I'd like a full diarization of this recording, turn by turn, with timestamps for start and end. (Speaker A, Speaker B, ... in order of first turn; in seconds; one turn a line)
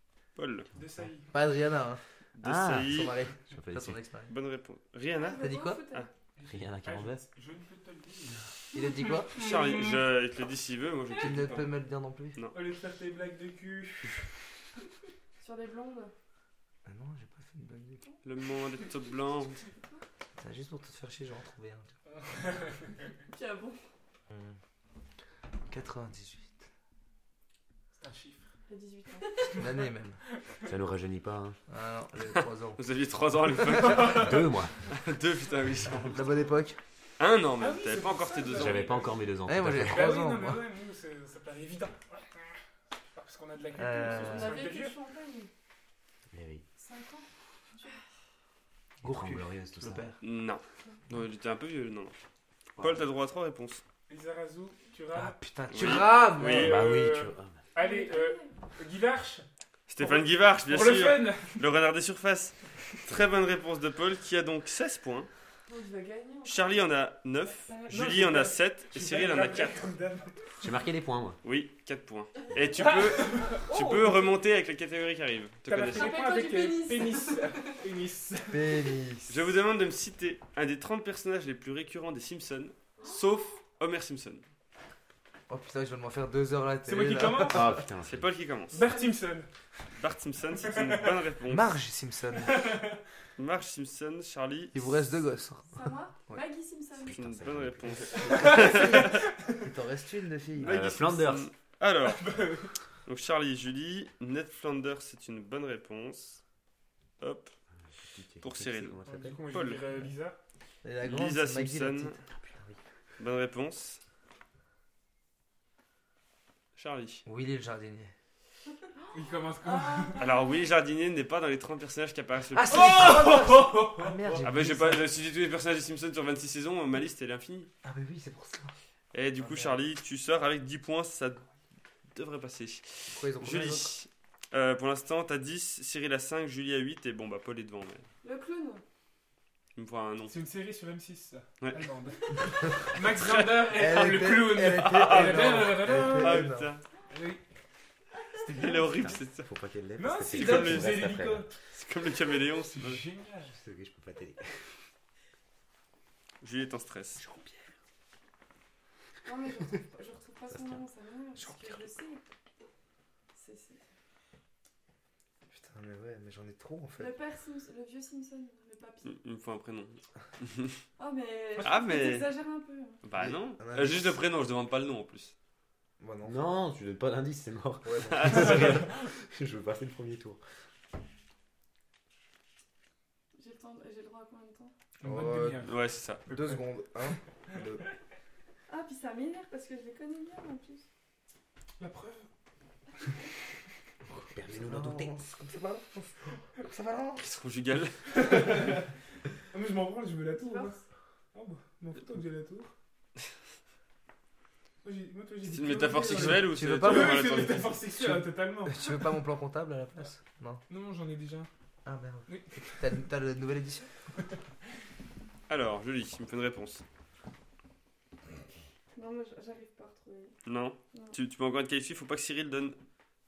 Speaker A: 0.4-0.7
Speaker B: 0.8-1.3
Speaker C: 1.3-2.0
Speaker A: 2.4-3.2
Speaker D: 2.4-4.0
Speaker C: 2.8-4.3
Speaker A: 4.3-6.1
Speaker E: 5.2-6.1
Speaker C: 5.4-5.8
Speaker B: 6.4-8.6
Speaker D: 6.5-7.2
Speaker C: 8.7-9.5
Speaker A: 9.3-11.7
Speaker B: 9.4-9.9
Speaker C: 11.2-12.4
Speaker B: 12.5-14.3
Speaker E: 15.4-16.1
Speaker C: 16.9-18.0
Speaker A: 18.2-19.6
Speaker C: 20.4-21.9
Speaker B: 22.2-22.8
Speaker E: 23.3-23.8
Speaker C: 24.3-24.6
Speaker C: 25.7-26.7
Speaker B: 27.9-28.5
Speaker E: 28.7-29.6
Speaker C: 29.5-30.2
Speaker D: 30.6-31.6
Speaker C: 31.7-32.8
Speaker A: 32.8-34.3
Speaker B: 33.7-34.5
Speaker D: 34.0-34.7
Speaker A: 34.9-36.2
Speaker C: 36.1-36.8
Speaker A: 37.2-39.0
Speaker B: 37.6-39.1
Speaker D: 38.5-40.2
Speaker C: 39.5-40.6
Speaker B: 39.8-42.6
Speaker B: 43.1-45.0
Speaker C: 43.8-44.6
Speaker E: 44.1-45.5
Speaker D: 46.3-46.6
Speaker E: 46.8-48.0
Speaker C: 49.0-50.2
Speaker D: 49.0-50.1
Speaker A: 50.2-52.1
Speaker A: 52.8-53.8
Speaker B: 54.1-59.5
Speaker C: 55.1-56.9
Speaker A: 55.7-56.7
Speaker D: 56.5-57.6
Speaker E: 57.8-58.5
Speaker A: 59.9-65.3
Speaker B: 60.0-61.7
Speaker E: 65.7-66.8
Speaker A: 66.5-69.8
Speaker B: 67.7-70.7
Speaker D: 70.6-71.4
Speaker A: 71.4-76.1
Speaker B: 72.8-74.4
Speaker B: 75.7-79.0
Speaker E: 75.9-77.8
Speaker C: 78.5-79.6
Speaker A: 79.3-84.4
Speaker E: 83.0-83.4
Speaker C: 85.5-87.7
Speaker B: 86.8-87.8
Speaker D: 87.5-88.3
Speaker A: 88.0-88.8
Speaker B: 88.7-89.5
Speaker E: 88.8-89.2
Speaker A: 90.0-91.7
Speaker B: 90.6-91.2
Speaker C: 91.5-92.8
Speaker B: 92.4-93.0
Speaker A: 93.4-95.0
Speaker C: 94.7-96.4
Speaker E: 95.7-97.2
Speaker D: 97.0-98.3
Speaker A: 97.2-99.2
Speaker C: 98.1-100.7
Speaker B: 98.4-99.6
Speaker A: 100.6-102.3
Speaker D: 100.6-101.5
Speaker B: 102.1-102.7
Speaker A: 103.1-106.4
Speaker A: 107.2-107.5
Speaker D: 107.9-109.4
Speaker A: 108.4-109.0
Speaker B: 109.1-110.4
Speaker A: 109.5-109.9
Speaker C: 110.8-112.2
Speaker A: 111.0-112.2
Speaker D: 112.4-112.8
Speaker A: 113.2-114.0
Speaker A: 116.8-117.2
Speaker C: 117.3-118.1
Speaker E: 119.0-120.5
Speaker B: 119.1-120.3
Speaker A: 120.2-123.8
Speaker C: 122.5-125.1
Speaker B: 122.9-123.2
Speaker A: 124.3-127.7
Speaker C: 127.8-128.7
Speaker A: 129.1-131.4
Speaker C: 129.4-129.8
Speaker A: 132.2-138.1
Speaker C: 133.1-133.9
Speaker E: 138.2-138.8
Speaker A: 139.8-140.3
Speaker B: 140.3-146.5
Speaker A: 143.1-143.8
Speaker C: 143.7-146.7
Speaker A: 144.7-146.8
Speaker B: 147.1-147.4
Speaker B: 148.5-148.8
Speaker A: 148.5-149.5
Speaker D: 149.0-151.5
Speaker B: 150.0-151.5
Speaker A: 150.3-151.0
Speaker A: 151.7-153.0
Speaker B: 152.8-153.6
Speaker D: 153.5-154.5
Speaker A: 156.4-157.2
Speaker E: 159.2-162.2
Speaker D: 160.5-160.8
Speaker C: 161.4-161.9
Speaker E: 163.3-163.8
Speaker C: 165.5-167.2
Speaker E: 167.0-169.2
Speaker A: 169.1-170.8
Speaker E: 171.0-173.0
Speaker A: 171.6-172.3
Speaker A: 173.0-175.3
Speaker C: 173.2-174.2
Speaker C: 176.0-176.4
Speaker D: 176.2-180.4
Speaker C: 177.8-178.8
Speaker A: 178.1-178.9
Speaker E: 183.4-184.7
Speaker B: 185.0-186.7
Speaker C: 185.0-185.7
Speaker A: 185.6-186.2
Speaker C: 186.3-187.8
Speaker E: 188.7-190.9
Speaker B: 191.8-192.3
Speaker C: 194.1-197.2
Speaker D: 194.3-195.2
Speaker A: 197.2-198.4
Speaker B: 198.1-198.8
Speaker B: 199.5-200.8
Speaker E: 200.4-200.8
Speaker B: 201.3-202.7
Speaker B: 204.8-208.9
Speaker A: 205.5-207.8
Speaker C: 206.0-210.6
Speaker B: 210.7-211.5
Speaker C: 211.8-214.0
Speaker B: 212.3-212.8
Speaker A: 215.5-216.8
Speaker E: 219.0-220.4
Speaker A: 220.5-222.8
Speaker E: 220.9-221.2